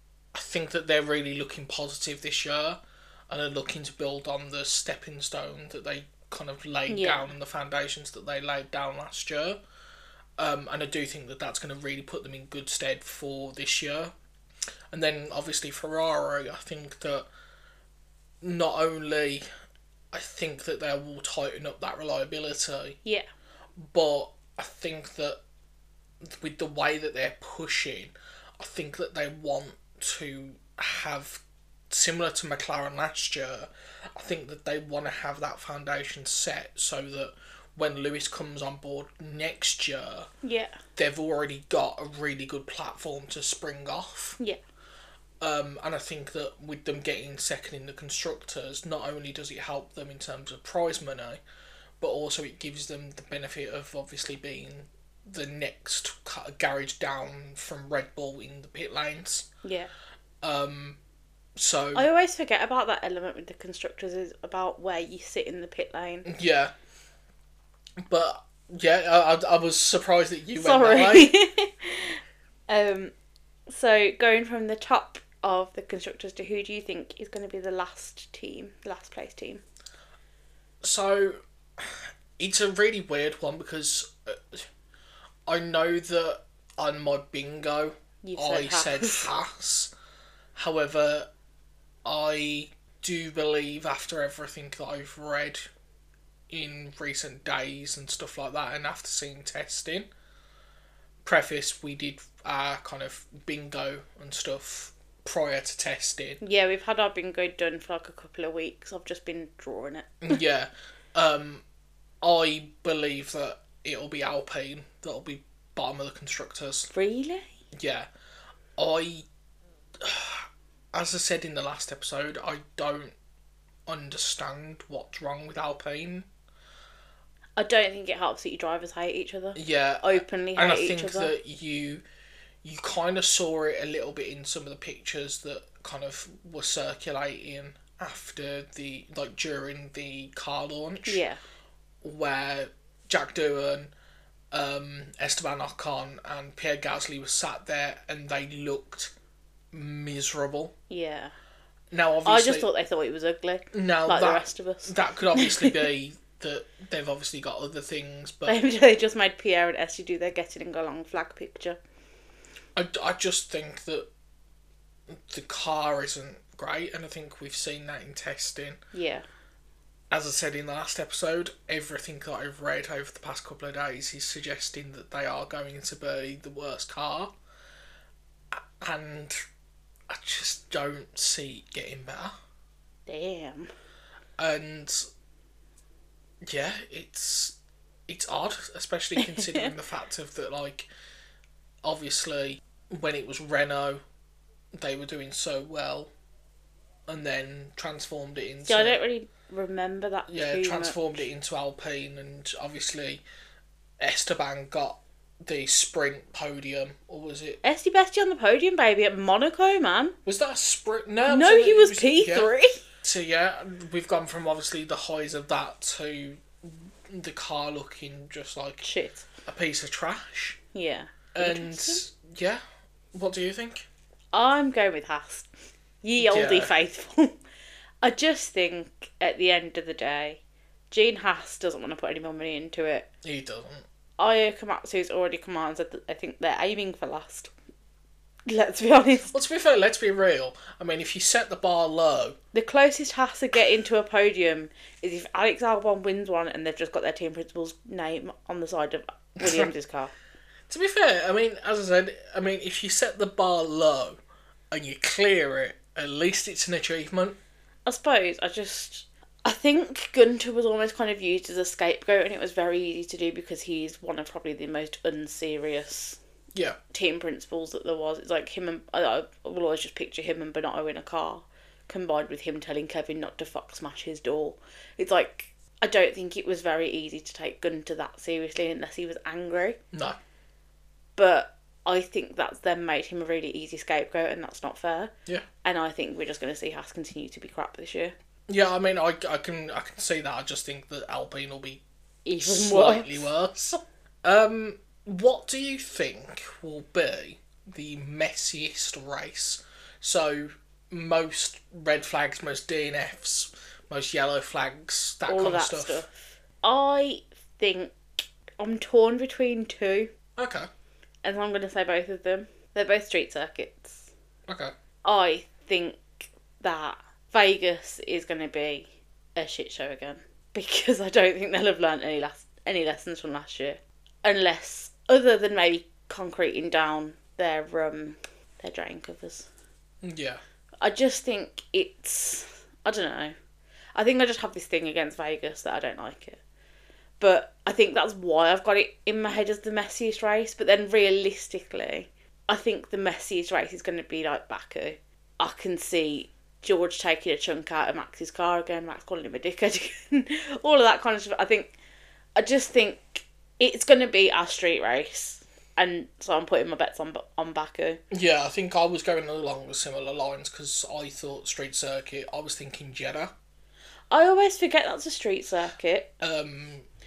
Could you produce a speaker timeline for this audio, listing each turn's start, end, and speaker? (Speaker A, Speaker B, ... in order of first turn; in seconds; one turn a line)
Speaker A: 0.3-9.6
Speaker B: 6.9-7.3
Speaker A: 10.4-14.1
Speaker A: 14.9-17.2
Speaker A: 18.4-19.4
Speaker A: 20.1-23.0
Speaker A: 23.8-25.4
Speaker A: 26.2-40.3
Speaker B: 40.4-40.8
Speaker A: 41.0-44.4
Speaker A: 45.4-51.4
Speaker A: 52.0-59.5
Speaker B: 59.6-59.9
Speaker A: 60.4-61.0
Speaker A: 61.5-62.1
Speaker B: 61.9-66.3
Speaker A: 66.2-66.7
Speaker A: 68.0-71.3
Speaker B: 70.5-73.1
Speaker B: 73.7-79.6
Speaker A: 80.8-84.7
Speaker A: 85.5-89.9
Speaker B: 88.2-89.3
Speaker A: 90.5-91.3
Speaker A: 92.0-95.7
Speaker A: 96.5-100.1
Speaker A: 101.2-106.4
Speaker B: 106.4-110.4
Speaker A: 110.2-111.6
Speaker A: 112.2-116.9
Speaker B: 116.9-117.5
Speaker A: 117.7-118.1
Speaker A: 118.8-119.2
Speaker A: 120.0-123.1
Speaker A: 123.9-126.3
Speaker B: 127.6-131.3
Speaker A: 129.5-132.0
Speaker A: 132.6-141.2
Speaker B: 141.1-141.4
Speaker A: 142.0-143.9
Speaker A: 144.5-149.1
Speaker A: 149.7-150.7
Speaker B: 150.9-151.3
Speaker A: 151.9-152.7
Speaker B: 152.2-155.8
Speaker A: 153.7-158.6
Speaker B: 158.5-161.8
Speaker A: 162.8-164.1
Speaker A: 165.1-168.8
Speaker B: 168.9-169.2
Speaker A: 170.1-177.3
Speaker A: 178.5-179.4
Speaker A: 180.1-182.3
Speaker B: 183.1-183.7
Speaker A: 184.4-185.1
Speaker A: 186.4-187.6
Speaker A: 188.1-190.9
Speaker B: 189.2-189.7
Speaker A: 191.8-194.0
Speaker A: 194.8-196.1
Speaker A: 197.1-199.0
Speaker B: 198.7-201.2
Speaker A: 200.3-203.2
Speaker A: 204.0-207.6
Speaker B: 207.6-210.2
Speaker A: 210.2-212.5
Speaker B: 211.3-212.7
Speaker A: 213.0-218.8
Speaker B: 218.8-219.2
Speaker A: 219.4-220.6
Speaker B: 220.7-222.0
Speaker A: 221.3-222.6
Speaker A: 223.1-223.8
Speaker B: 224.3-225.5
Speaker B: 226.0-227.4
Speaker A: 226.2-226.7
Speaker B: 228.0-230.4
Speaker B: 230.9-233.1
Speaker A: 233.2-233.8
Speaker B: 234.2-237.5
Speaker B: 238.5-239.3
Speaker A: 239.3-242.4
Speaker B: 242.5-250.1
Speaker A: 249.4-249.7
Speaker A: 250.7-254.2
Speaker A: 254.7-257.4
Speaker B: 257.9-266.2
Speaker B: 266.9-279.8
Speaker A: 279.9-280.2
Speaker B: 281.1-285.1
Speaker B: 285.6-288.1
Speaker A: 288.5-291.8
Speaker B: 292.2-293.2
Speaker A: 292.4-306.0
Speaker B: 305.3-310.1
Speaker A: 310.4-310.7
Speaker B: 311.2-314.1
Speaker A: 314.5-314.7
Speaker B: 315.0-329.5
Speaker A: 330.0-330.4
Speaker B: 330.8-333.3
Speaker B: 333.9-336.4
Speaker B: 337.2-351.7
Speaker B: 352.4-358.0
Speaker A: 358.1-363.3
Speaker B: 364.1-366.1
Speaker A: 366.2-366.9